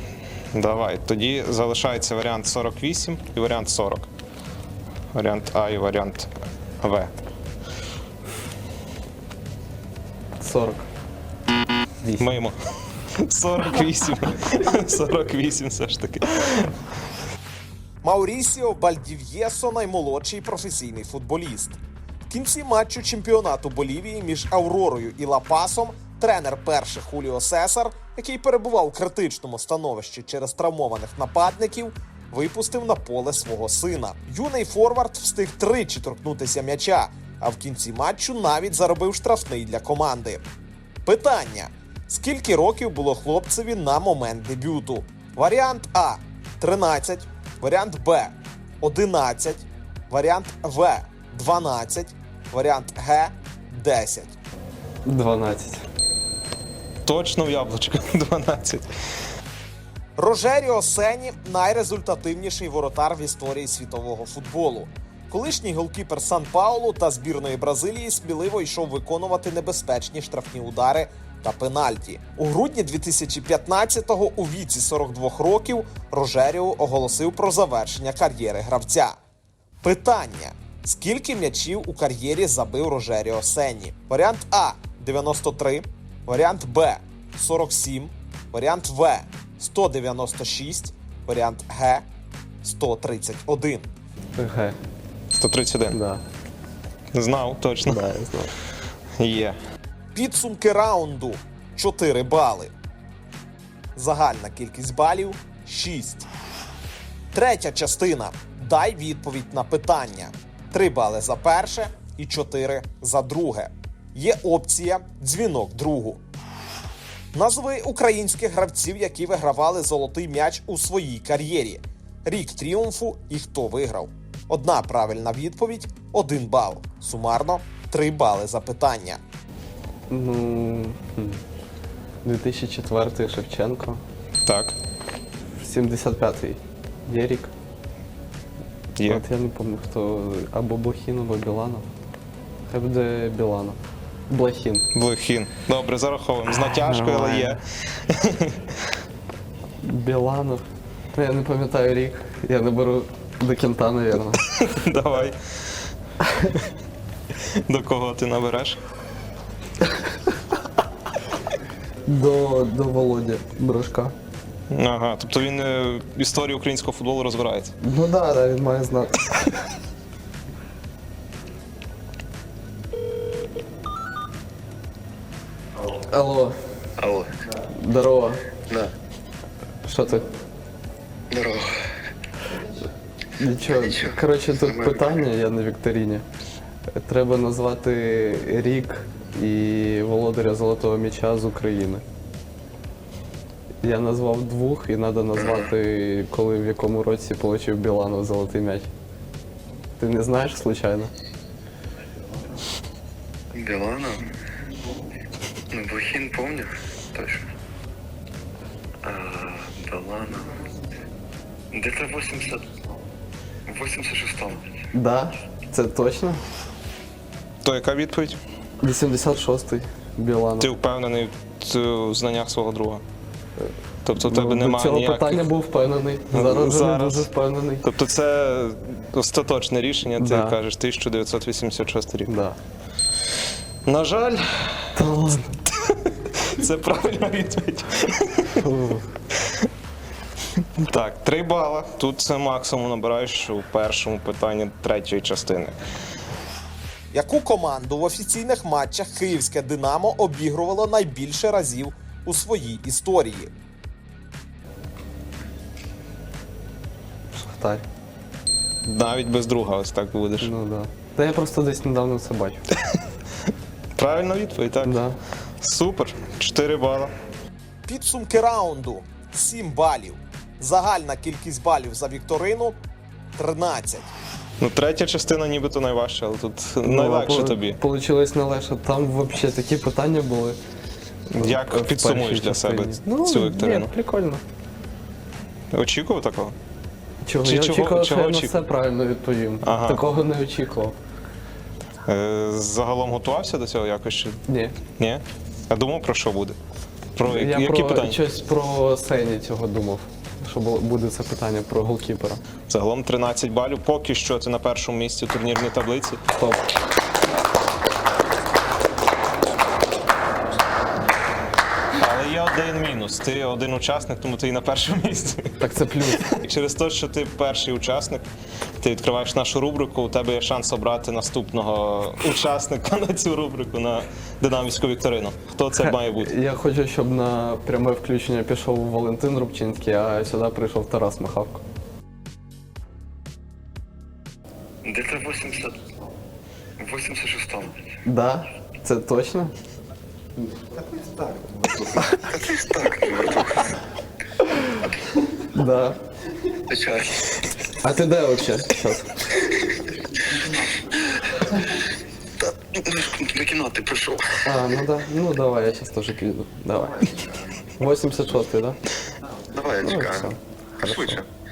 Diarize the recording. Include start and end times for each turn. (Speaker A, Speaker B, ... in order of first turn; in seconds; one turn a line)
Speaker A: 0.5-4.1
Speaker A: 5.1-6.3
Speaker A: 6.8-7.1
Speaker B: 10.4-10.9
Speaker B: 12.0-12.3
Speaker A: 12.2-12.6
Speaker A: 13.2-16.7
Speaker C: 18.0-21.8
Speaker C: 22.3-40.4
Speaker C: 41.0-54.4
Speaker B: 55.0-55.9
Speaker A: 57.0-58.9
Speaker C: 60.2-79.2
Speaker C: 79.8-92.0
Speaker C: 92.6-93.8
Speaker B: 94.4-94.8
Speaker A: 95.3-96.0
Speaker B: 95.9-96.2
Speaker A: 97.1-98.0
Speaker B: 97.8-98.5
Speaker A: 99.2-99.6
Speaker C: 100.1-102.7
Speaker C: 104.0-106.3
Speaker C: 107.3-116.2
Speaker C: 117.3-129.2
Speaker B: 130.1-131.4
Speaker B: 132.2-134.0
Speaker A: 134.4-134.8
Speaker B: 135.6-137.5
Speaker A: 139.0-139.2
Speaker B: 139.1-141.9
Speaker B: 142.7-143.8
Speaker B: 144.3-144.9
Speaker A: 144.9-148.8
Speaker B: 146.7-147.6
Speaker B: 149.8-150.6
Speaker B: 151.2-154.4
Speaker A: 154.4-155.4
Speaker A: 157.6-158.8
Speaker B: 162.1-164.1
Speaker A: 164.7-167.7
Speaker B: 167.8-169.3
Speaker B: 175.9-176.6
Speaker D: 177.0-177.3
Speaker B: 177.7-178.5
Speaker B: 179.8-180.3
Speaker D: 181.3-181.9
Speaker B: 183.4-186.2
Speaker D: 183.8-185.2
Speaker B: 186.9-192.0
Speaker B: 193.8-198.9
Speaker D: 195.4-195.7
Speaker B: 200.0-201.1
Speaker D: 203.5-204.3
Speaker D: 205.7-207.5
Speaker D: 209.0-210.7
Speaker D: 211.7-212.7
Speaker D: 213.7-214.7
Speaker B: 214.9-216.4
Speaker A: 217.6-218.4
Speaker B: 218.8-220.7
Speaker A: 220.6-223.0
Speaker A: 224.1-225.5
Speaker B: 224.2-227.8
Speaker A: 226.3-227.3
Speaker A: 227.8-232.3
Speaker B: 230.2-230.6
Speaker B: 232.3-232.6
Speaker A: 233.8-238.6
Speaker B: 234.9-235.6
Speaker B: 238.6-239.1
Speaker A: 240.8-245.8
Speaker C: 247.1-253.5
Speaker B: 257.4-257.9
Speaker A: 258.8-260.5
Speaker B: 260.4-262.6
Speaker A: 264.0-265.0
Speaker B: 264.8-265.2
Speaker A: 265.6-267.1
Speaker C: 267.9-272.8
Speaker C: 273.4-274.1
Speaker A: 274.6-277.8
Speaker B: 276.8-280.6
Speaker A: 281.3-283.9
Speaker B: 281.4-284.4
Speaker A: 285.7-286.6
Speaker B: 287.2-291.0
Speaker A: 287.4-288.6
Speaker A: 289.6-290.1
Speaker A: 292.1-294.4
Speaker B: 294.5-294.8
Speaker A: 295.0-296.6
Speaker A: 297.2-298.2
Speaker B: 297.2-302.4
Speaker A: 302.7-306.2
Speaker B: 306.4-306.6
Speaker A: 311.9-315.6
Speaker B: 315.6-316.3
Speaker A: 316.2-318.3
Speaker A: 318.8-326.3
Speaker B: 325.8-331.6
Speaker D: 334.8-335.9
Speaker D: 336.8-337.8
Speaker B: 338.0-339.5
Speaker D: 341.5-343.7
Speaker B: 345.5-346.0
Speaker D: 346.7-347.2
Speaker B: 347.7-349.2
Speaker D: 352.4-354.4
Speaker B: 354.4-357.1
Speaker D: 357.1-357.6
Speaker B: 357.8-358.8
Speaker D: 359.5-361.2
Speaker B: 359.8-361.2